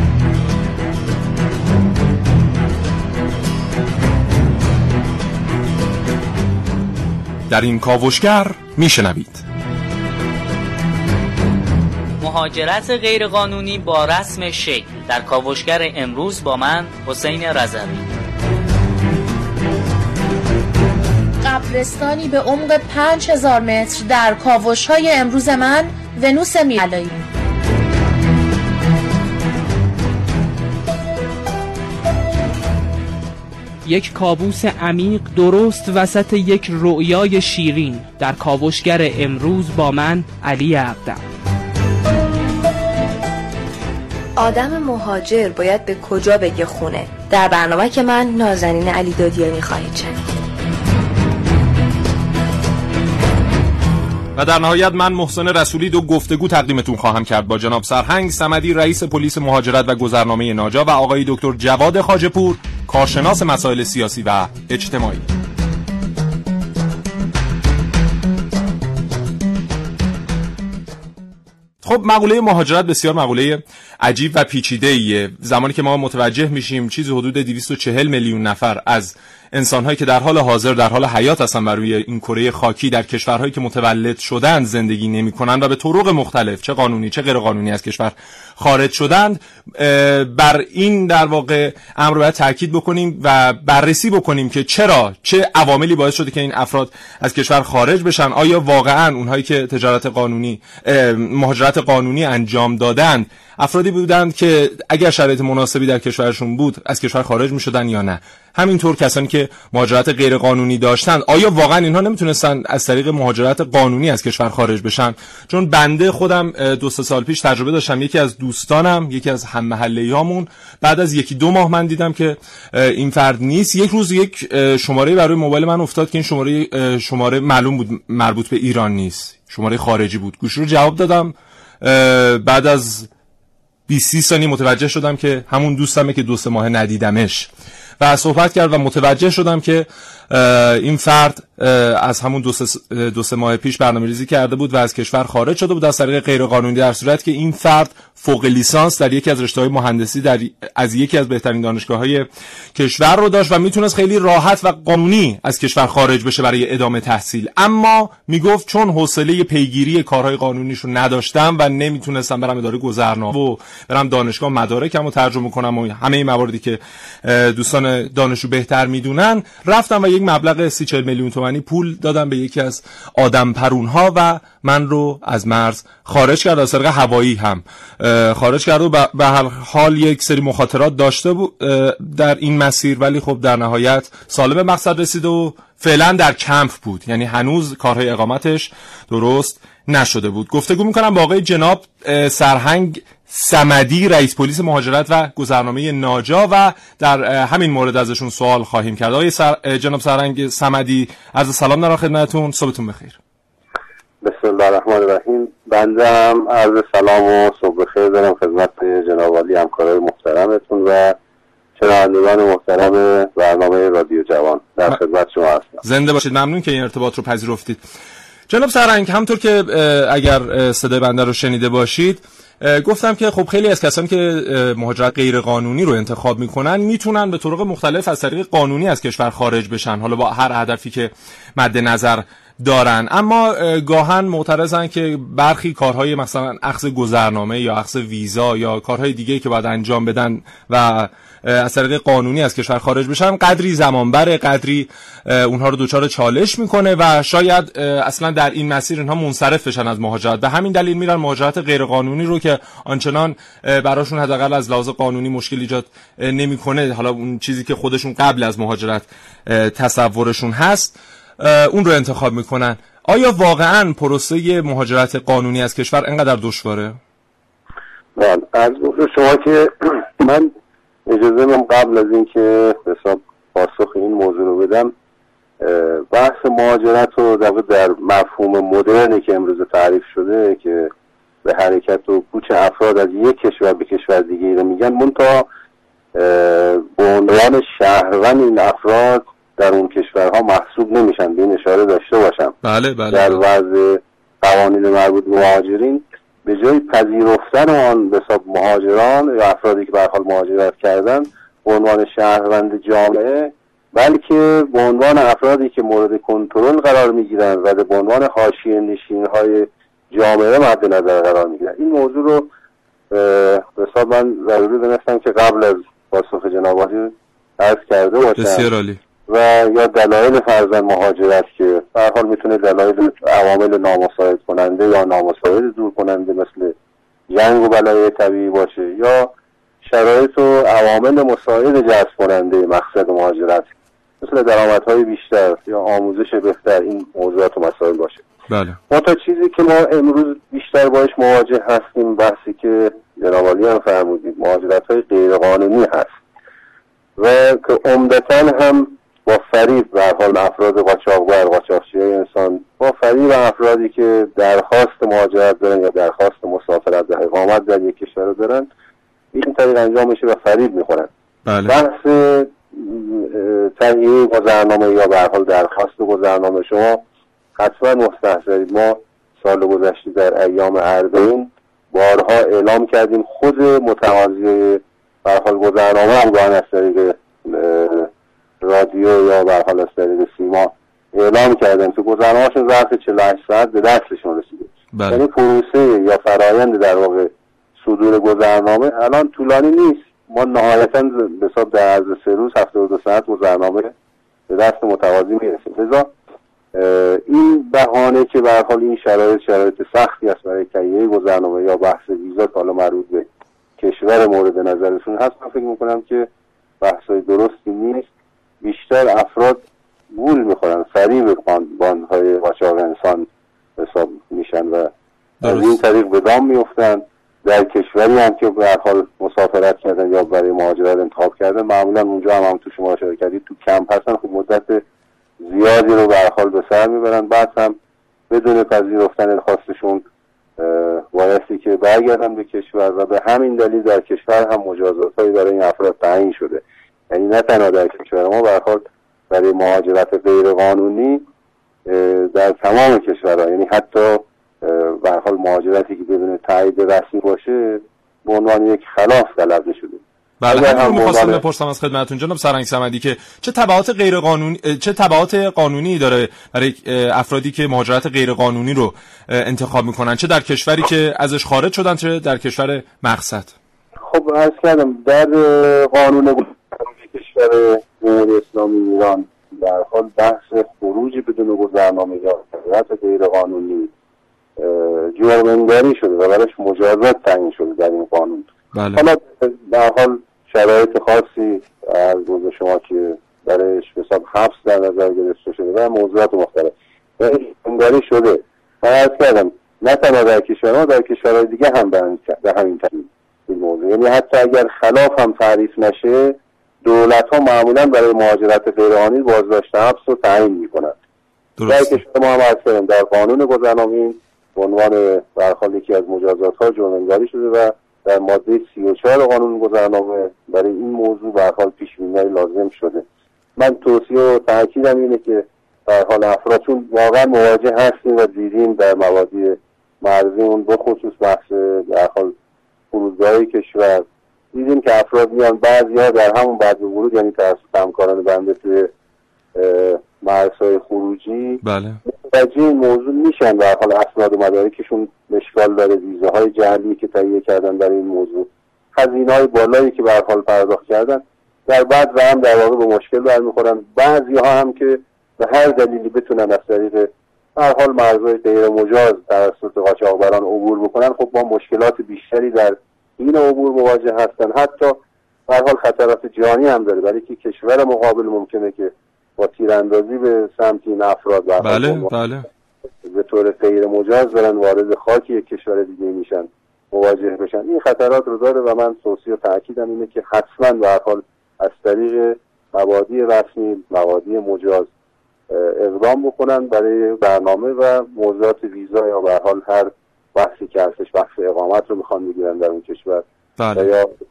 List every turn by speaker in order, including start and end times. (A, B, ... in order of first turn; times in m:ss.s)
0:07.5-0:09.4 A
0:12.2-0:18.1 B
0:21.4-0:27.2 C
0:33.8-0:41.2 D
0:44.4-0:50.2 E
0:54.4-1:05.3 A
1:11.8-2:13.1 A
2:13.9-2:17.5 A
2:18.0-3:23.2 A
3:24.2-3:31.2 F
3:31.8-3:35.8 F
3:35.8-3:37.8 A
3:38.5-4:27.0 A
4:28.2-4:30.5 F
4:31.1-4:34.9 F
4:35.6-4:40.9 F
4:41.4-4:45.5 F
4:46.2-4:52.6 F
4:52.6-4:53.4 A
4:53.1-5:12.5 F
5:13.1-5:18.7 F
5:18.4-5:19.0 A
5:19.3-5:26.8 F
5:27.3-5:38.2 F
5:38.5-5:38.8 A
5:38.9-5:46.1 F
5:47.2-5:58.7 F
5:59.3-6:01.1 F
6:01.5-6:01.8 A
6:01.6-6:07.0 F
6:07.6-6:18.1 F
6:18.6-6:33.9 F
6:24.9-6:25.2 A
6:34.5-6:36.1 F
6:36.7-6:46.3 F
6:46.8-6:48.1 F
6:48.6-6:54.9 F
6:55.4-7:04.8 F
6:55.4-6:55.8 A
7:05.4-7:07.8 F
7:08.3-7:10.0 F
7:10.6-7:21.3 F
7:21.9-7:31.4 F
7:30.4-7:43.5 A
7:44.0-7:53.9 F
7:54.6-8:21.0 F
7:58.7-7:59.0 A
8:21.6-8:22.0 A
8:21.7-8:33.0 F
8:33.6-8:42.4 F
8:42.9-8:48.9 F
8:49.6-9:22.1 F
8:51.6-8:52.0 A
9:21.6-9:22.5 A
9:23.0-9:34.9 F
9:35.5-9:44.1 F
9:43.6-9:43.9 A